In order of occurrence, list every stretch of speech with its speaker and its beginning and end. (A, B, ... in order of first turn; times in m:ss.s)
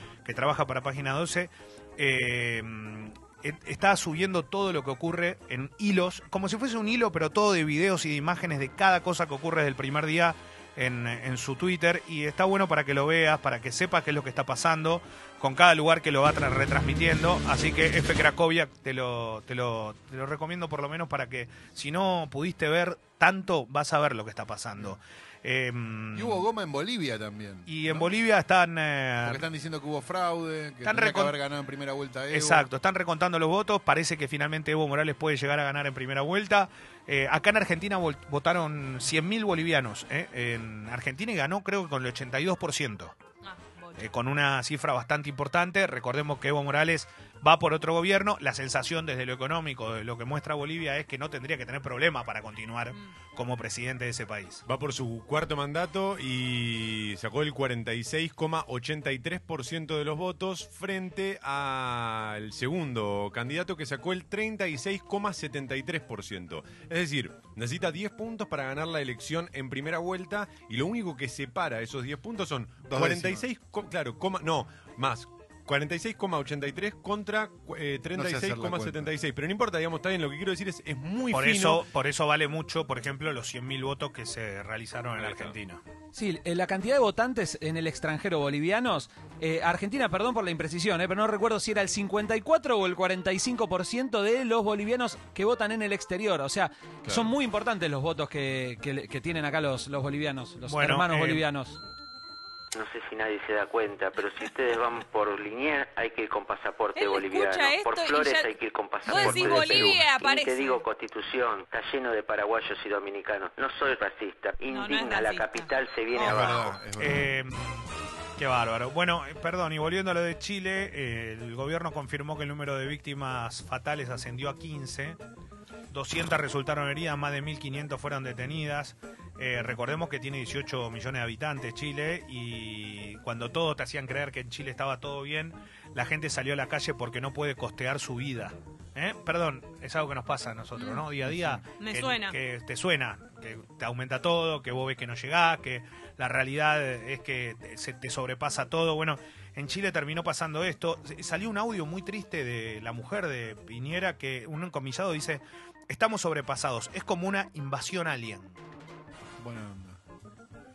0:00.2-0:26.4 A
0:26.1-0:28.1 B
0:27.7-0:29.4 A
0:29.2-0:32.7 B
0:30.8-0:31.4 A
0:32.3-0:43.2 A
0:43.4-0:44.1 C
0:44.0-0:54.6 A
0:54.7-1:21.9 D
1:12.9-1:13.5 B
1:18.1-1:19.1 B
1:21.3-1:25.8 A
1:25.2-1:25.5 D
1:26.1-1:41.8 E
1:37.1-1:37.3 D
1:40.7-1:41.4 A
1:42.7-1:56.7 F
1:47.0-1:50.8 C
1:54.7-1:56.5 C
1:56.2-1:57.3 B
1:57.0-2:05.2 A
2:05.9-2:38.6 A
2:20.8-2:21.0 C
2:21.3-2:21.6 B
2:21.8-2:22.4 C
2:39.4-2:40.0 B